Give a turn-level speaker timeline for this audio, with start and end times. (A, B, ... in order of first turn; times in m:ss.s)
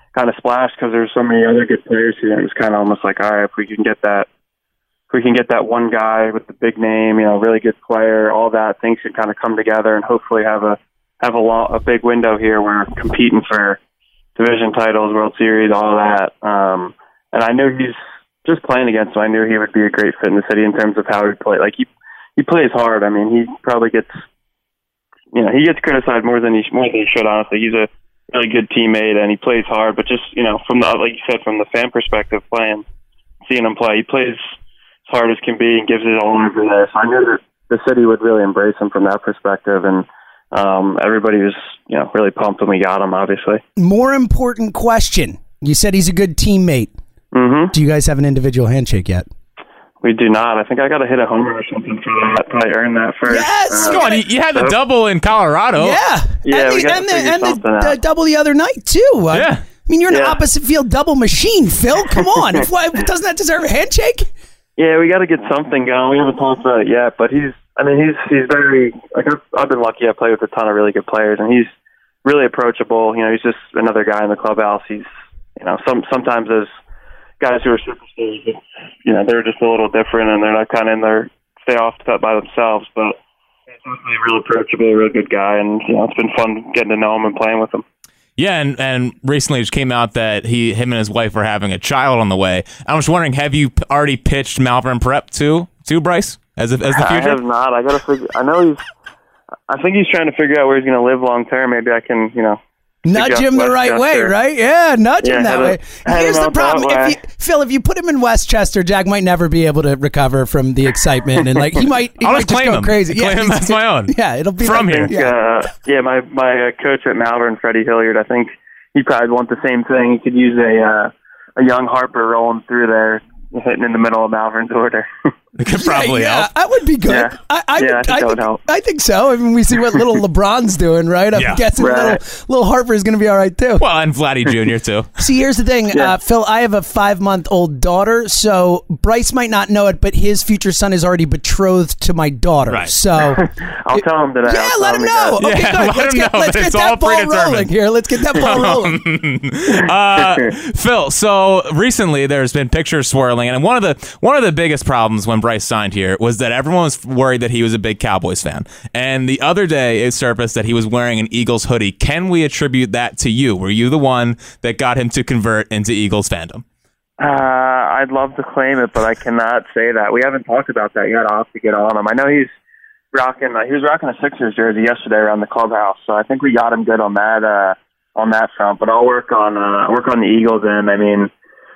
0:00.1-0:04.3 A
0:05.1-0:13.8 A
0:14.4-0:24.1 A
0:25.3-0:32.8 A
0:33.4-0:34.4 A
0:35.1-0:43.6 A
0:43.8-0:46.9 B
0:47.3-0:47.7 A
0:47.7-0:49.2 B
0:50.0-0:54.7 A
0:53.3-0:54.2 B
0:53.9-0:56.0 C
0:55.8-1:04.3 B
0:56.4-0:58.0 A
0:59.3-0:59.6 C
1:00.1-1:00.4 A
1:04.8-1:11.7 A
1:12.2-1:16.7 A
1:17.4-1:23.2 A
1:23.8-1:27.8 A
1:28.4-1:37.4 C
1:36.9-1:38.8 A
1:39.7-1:42.6 A
1:43.0-1:55.3 B
1:43.1-1:44.3 A
1:45.2-1:47.2 A
1:52.2-1:55.1 C
1:54.8-2:05.3 A
2:05.6-2:06.5 C
2:05.7-2:13.8 B
2:07.1-2:08.6 A
2:11.3-2:11.6 C
2:11.8-2:12.2 A
2:13.8-2:15.1 C
2:15.2-2:29.0 B
2:23.4-2:25.4 A
2:25.4-2:27.7 C
2:28.3-2:46.6 C
2:47.2-2:52.5 A
2:53.1-3:01.3 A